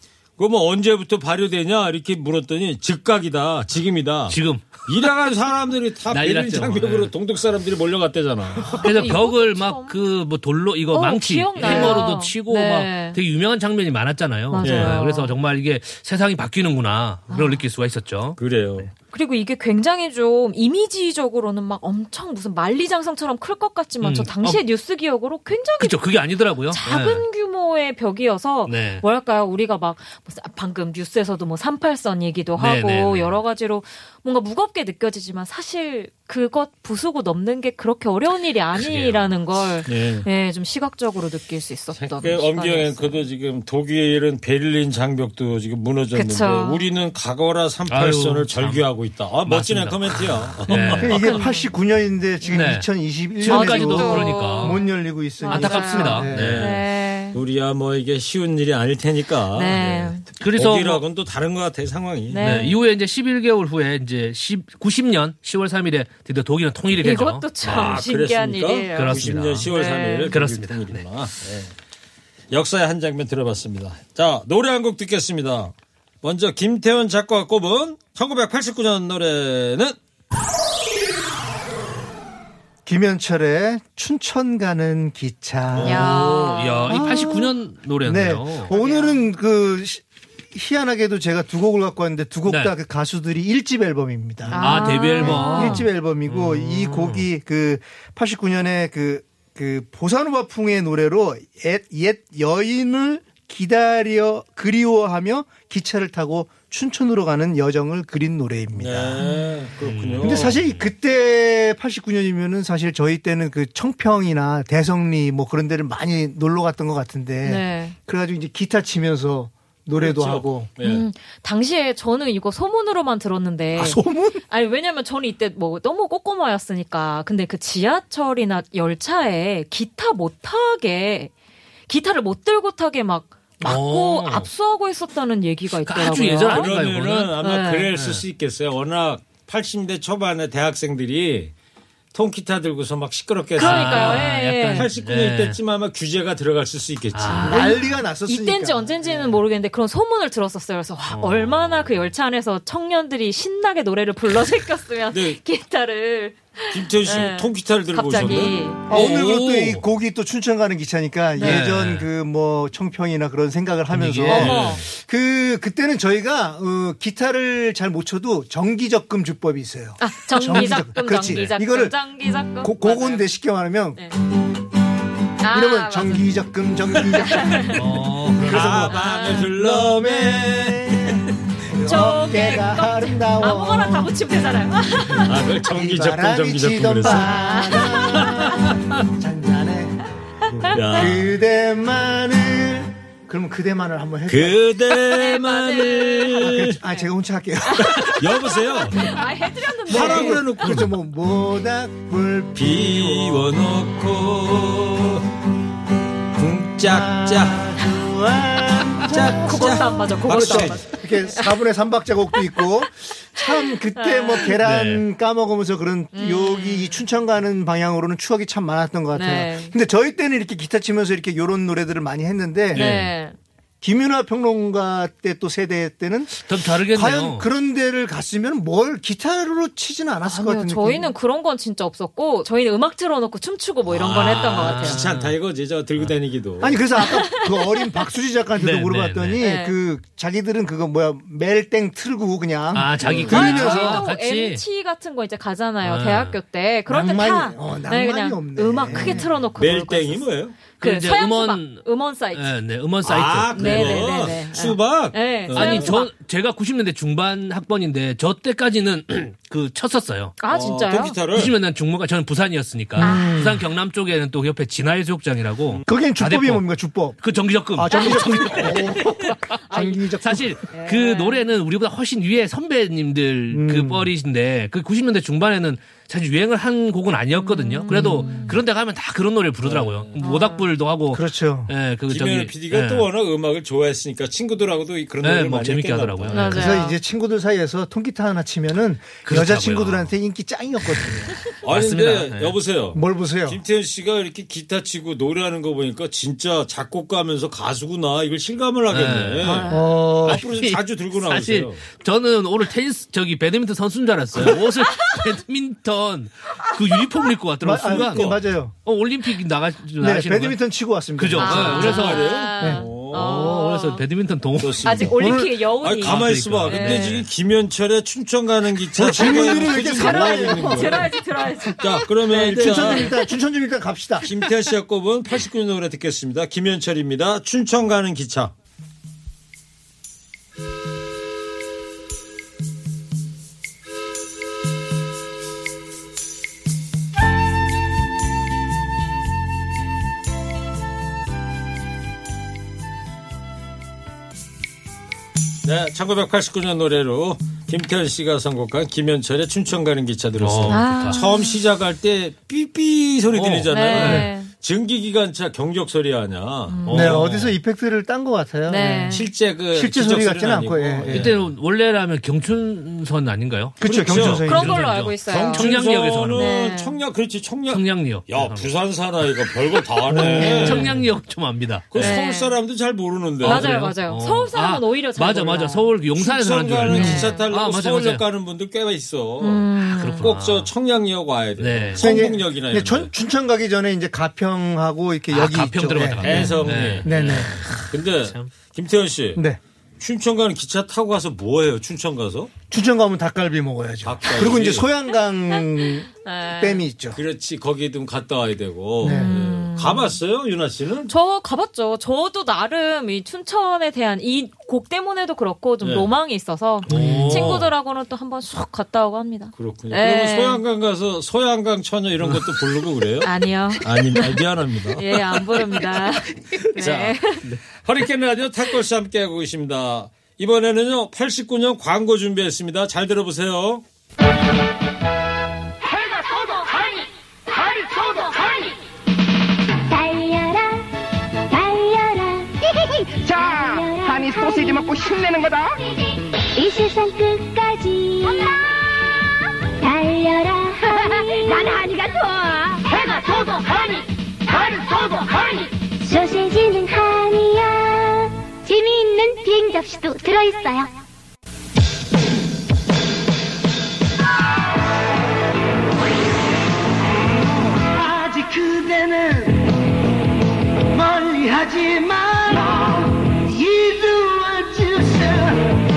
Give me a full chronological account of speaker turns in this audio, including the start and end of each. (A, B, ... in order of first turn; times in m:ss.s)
0:00.4-0:08.8 A
0:04.3-0:04.9 B
0:06.1-0:07.1 B
0:08.6-0:18.4 B
0:08.8-0:10.0 C
0:10.9-0:13.2 C
0:11.6-0:12.0 A
0:14.5-0:15.3 C
0:14.6-0:15.0 A
0:17.3-0:17.6 C
0:18.4-0:18.9 A
0:19.1-0:26.0 C
0:24.0-0:24.6 B
0:25.8-0:27.2 B
0:26.7-0:43.2 C
0:28.7-0:29.0 B
0:32.6-0:33.4 B
0:38.8-0:39.3 B
0:39.8-0:40.2 A
0:41.9-0:51.2 A
0:46.1-0:46.8 C
0:47.9-0:48.8 B
0:49.4-0:51.3 B
0:50.8-0:51.7 C
0:51.0-0:56.6 D
0:52.5-0:52.8 B
0:53.4-0:54.8 B
0:53.5-0:57.4 C
0:55.5-0:56.7 B
0:56.3-1:02.7 A
0:59.5-1:00.2 C
1:00.4-1:01.0 B
1:02.3-1:02.8 C
1:02.4-1:07.4 B
1:07.0-1:10.3 C
1:07.6-1:11.7 A
1:09.0-1:09.7 B
1:10.3-1:11.0 B
1:12.5-1:20.0 A
1:22.8-1:26.3 D
1:25.8-1:28.7 B
1:25.8-1:27.0 C
1:26.9-1:49.2 D
1:28.7-1:29.2 C
1:32.5-1:32.7 B
1:34.5-1:37.2 B
1:34.5-1:35.9 C
1:48.8-1:50.5 A
1:49.2-1:49.5 C
1:49.8-1:50.9 B
1:50.2-2:00.7 D
1:57.4-1:58.0 C
2:00.0-2:01.0 A
2:00.8-2:11.3 C
2:03.8-2:04.4 D
2:11.9-2:16.7 C
2:13.6-2:14.5 B
2:15.8-2:17.4 B
2:16.5-2:21.5 A
2:17.4-2:17.9 C
2:17.9-2:18.2 B
2:22.1-2:27.5 A
2:23.6-2:24.9 C
2:23.6-2:25.6 B
2:27.1-2:27.6 B
2:27.4-2:38.9 C
2:27.4-2:29.3 D
2:31.1-2:31.9 B
2:35.1-2:35.4 A
2:36.7-2:38.6 A
2:38.9-2:52.0 D
2:38.9-2:39.8 B
2:41.4-2:41.6 C
2:41.4-2:42.1 B
2:43.9-2:44.8 B
2:44.2-2:44.8 C
2:44.3-2:44.7 A
2:50.0-2:53.3 C
2:50.4-2:51.5 B
2:52.6-2:54.0 D
2:55.4-2:56.3 C
2:55.5-3:04.1 D
2:57.1-2:57.8 C
2:57.7-2:58.9 B
2:58.4-3:01.2 A
2:58.9-2:59.5 C
3:01.8-3:05.3 C
3:05.2-3:07.3 A
3:05.7-3:14.6 D
3:07.0-3:08.6 C
3:10.6-3:11.0 C
3:10.7-3:11.3 A
3:14.3-3:16.8 A
3:15.0-3:17.0 C
3:16.4-3:18.2 D
3:17.6-3:20.4 C
3:17.9-3:19.1 A
3:19.9-3:20.9 A
3:19.9-3:23.6 D
3:22.6-3:25.2 A
3:26.4-3:27.7 A
3:26.8-3:42.9 D
3:29.0-3:30.9 A
3:29.4-3:31.5 C
3:33.4-3:34.6 C
3:34.6-3:35.0 B
3:36.1-3:37.0 C
3:39.1-3:39.7 C
3:42.7-3:43.4 C
3:42.7-3:43.1 B
3:43.8-3:51.1 D
3:46.5-3:47.4 B
3:50.3-3:55.0 C
3:53.9-3:55.3 B
3:54.6-3:56.7 A
3:56.6-4:04.1 D
3:57.0-3:57.8 C
3:58.6-3:59.4 B
3:59.4-3:59.7 C
4:02.7-4:04.6 B
4:03.0-4:03.5 A
4:03.3-4:12.5 C
4:05.8-4:06.4 B
4:06.9-4:09.3 D
4:09.5-4:10.6 A
4:10.8-4:14.1 B
4:13.0-4:16.0 A
4:13.5-4:16.1 C
4:15.5-4:20.3 B
4:20.4-4:21.2 C
4:20.5-4:21.5 A
4:21.3-4:26.6 B
4:23.0-4:23.6 D
4:23.0-4:23.4 C
4:25.9-4:30.6 D
4:27.2-4:29.1 B
4:27.9-4:28.7 C
4:29.7-4:30.1 C
4:30.2-4:43.0 B
4:30.7-4:31.4 C
4:33.5-4:34.1 D
4:37.3-4:38.6 C
4:37.9-4:38.4 D
4:39.6-4:40.1 A
4:40.2-4:40.6 C
4:41.1-4:41.7 D
4:42.1-4:46.5 A
4:45.2-4:46.6 B
4:46.3-4:47.0 C
4:46.5-4:51.4 D
4:49.2-4:50.1 B
4:51.6-5:01.8 A
4:51.6-4:52.6 B
4:52.9-4:53.6 D
4:58.9-5:10.6 B
4:59.4-4:59.9 C
4:59.7-5:00.5 D
5:07.6-5:08.8 D
5:10.0-5:12.0 D
5:11.2-5:12.3 B
5:11.4-5:14.0 C
5:11.6-5:13.5 A
5:12.6-5:12.8 D
5:13.1-5:15.3 B
5:14.6-5:21.1 A
5:14.8-5:17.2 C
5:15.2-5:15.6 D
5:16.0-5:17.2 B
5:19.0-5:21.1 D
5:19.2-5:23.0 C
5:21.7-5:23.1 A
5:22.2-5:24.3 D
5:24.2-5:28.5 A
5:45.6-5:57.2 A
5:50.4-5:51.2 B
5:50.7-5:51.5 C
5:53.3-5:54.3 B
5:53.7-5:54.5 C
5:54.0-5:54.3 D
5:56.7-5:57.2 C
5:56.9-5:57.6 B
5:56.9-6:01.3 D
5:58.7-5:59.2 C
5:59.1-6:01.5 A
6:01.1-6:06.5 B
6:03.8-6:04.9 D
6:03.8-6:04.4 A
6:04.5-6:05.7 C
6:05.3-6:11.0 A
6:06.3-6:07.0 C
6:07.7-6:08.7 B
6:10.1-6:11.0 D
6:10.2-6:12.2 B
6:10.4-6:10.8 C
6:11.9-6:13.7 A
6:12.0-6:12.6 C
6:13.4-6:18.2 B
6:13.4-6:15.9 C
6:16.2-6:19.7 A
6:16.9-6:17.4 C
6:19.4-6:20.2 C
6:19.8-6:20.7 B
6:20.2-6:23.1 A
6:21.6-6:22.1 B
6:21.9-6:27.9 D
6:25.3-6:27.6 B
6:26.2-6:29.4 A
6:30.0-6:32.5 A
6:32.7-6:37.2 D
6:34.0-6:34.9 A
6:36.2-6:36.8 C
6:37.1-6:41.1 A
6:39.0-6:39.4 D
6:39.0-6:40.1 C
6:41.1-6:50.6 C
6:45.8-6:46.1 A
6:46.9-6:47.6 D
6:46.9-6:47.7 B
6:49.6-6:55.5 A
6:53.2-6:54.4 C
6:55.0-6:57.4 C
6:56.8-6:57.2 A
6:57.7-7:03.8 A
7:09.9-7:10.9 E
7:11.5-7:12.6 E
7:13.2-7:15.3 E
7:16.5-7:18.7 E
7:19.8-7:22.8 E
7:26.0-7:31.0 E
7:37.8-7:39.6 F
7:40.9-7:45.7 F